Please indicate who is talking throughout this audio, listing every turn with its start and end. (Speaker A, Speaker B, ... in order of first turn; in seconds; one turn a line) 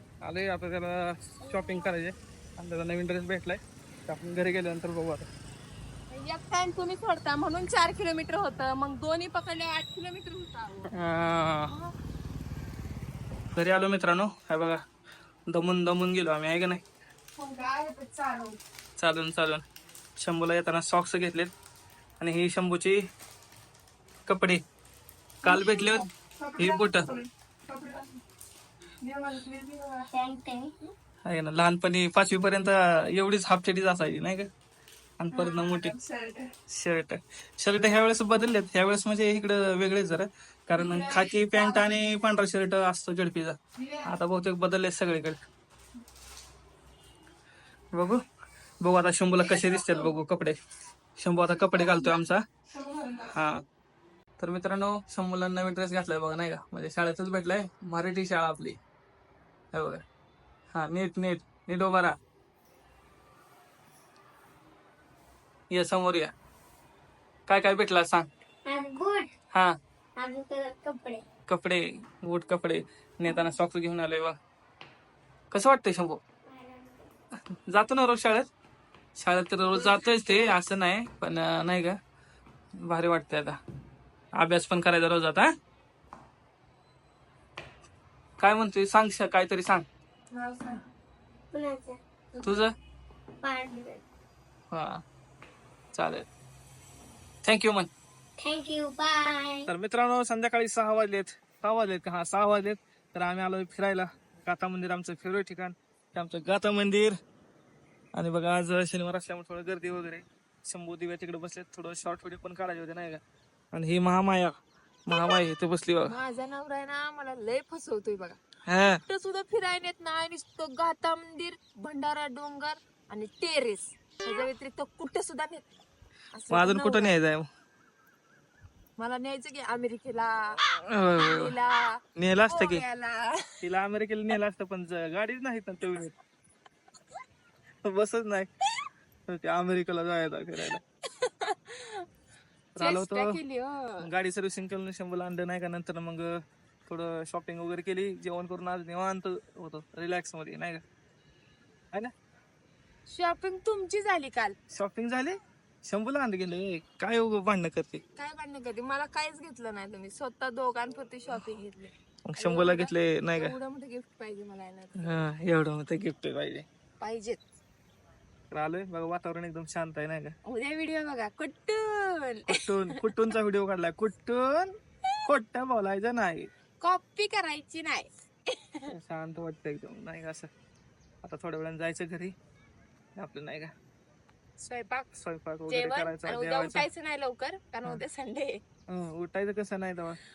Speaker A: 0.2-5.3
Speaker B: 1.4-1.9
Speaker B: 6.1-10.9
Speaker A: 10.9-11.7
Speaker B: 11.7-11.9
Speaker A: 13.6-14.8
Speaker A: 15.5-16.8
Speaker B: 17.4-18.6
Speaker A: 19.0-19.6
Speaker A: 20.2-21.5
Speaker A: 22.2-23.0
Speaker A: 24.3-24.6
Speaker A: 25.4-27.1
Speaker B: 25.5-28.2
Speaker B: 29.0-30.1
Speaker C: 30.1-30.8
Speaker A: 31.2-34.5
Speaker A: 35.2-36.0
Speaker B: 35.3-36.5
Speaker A: 36.7-45.4
Speaker B: 40.8-41.9
Speaker A: 47.9-48.2
Speaker A: 48.8-50.6
Speaker B: 49.5-50.0
Speaker A: 51.2-52.4
Speaker B: 51.8-52.1
Speaker B: 52.8-53.2
Speaker A: 53.2-53.6
Speaker A: 54.4-58.8
Speaker A: 59.7-60.0
Speaker A: 60.7-62.2
Speaker A: 65.7-66.3
Speaker A: 67.5-68.3
Speaker C: 68.7-69.3
Speaker C: 70.2-71.2
Speaker A: 71.5-74.4
Speaker A: 75.5-76.2
Speaker C: 76.5-76.9
Speaker A: 77.7-78.5
Speaker A: 79.2-82.0
Speaker A: 82.8-83.6
Speaker A: 84.3-85.5
Speaker A: 88.4-89.8
Speaker B: 90.3-90.8
Speaker C: 91.5-92.5
Speaker A: 92.4-92.7
Speaker C: 93.4-94.0
Speaker A: 94.7-95.0
Speaker A: 95.9-96.3
Speaker A: 97.4-97.9
Speaker C: 98.4-99.7
Speaker A: 99.7-107.2
Speaker A: 108.2-113.2
Speaker A: 113.7-114.5
Speaker A: 115.1-116.2
Speaker B: 115.1-115.4
Speaker B: 116.1-118.4
Speaker A: 118.7-119.0
Speaker B: 119.1-125.7
Speaker B: 126.3-127.2
Speaker A: 126.5-127.5
Speaker B: 129.0-133.6
Speaker A: 130.9-131.5
Speaker A: 132.2-132.8
Speaker A: 133.6-136.1
Speaker A: 137.8-138.5
Speaker A: 139.3-140.8
Speaker B: 141.1-142.1
Speaker A: 142.8-143.4
Speaker B: 142.8-144.1
Speaker A: 144.0-150.8
Speaker B: 153.1-154.6
Speaker A: 154.7-158.0
Speaker B: 158.2-165.2
Speaker A: 162.3-163.6
Speaker A: 165.0-166.7
Speaker B: 167.0-167.4
Speaker A: 168.5-170.3
Speaker B: 170.4-173.1
Speaker A: 172.5-176.5
Speaker B: 176.8-178.9
Speaker A: 178.9-180.5
Speaker A: 181.2-182.3
Speaker A: 183.2-183.7
Speaker B: 184.6-185.1
Speaker A: 185.2-186.9
Speaker B: 185.7-188.6
Speaker A: 188.9-190.2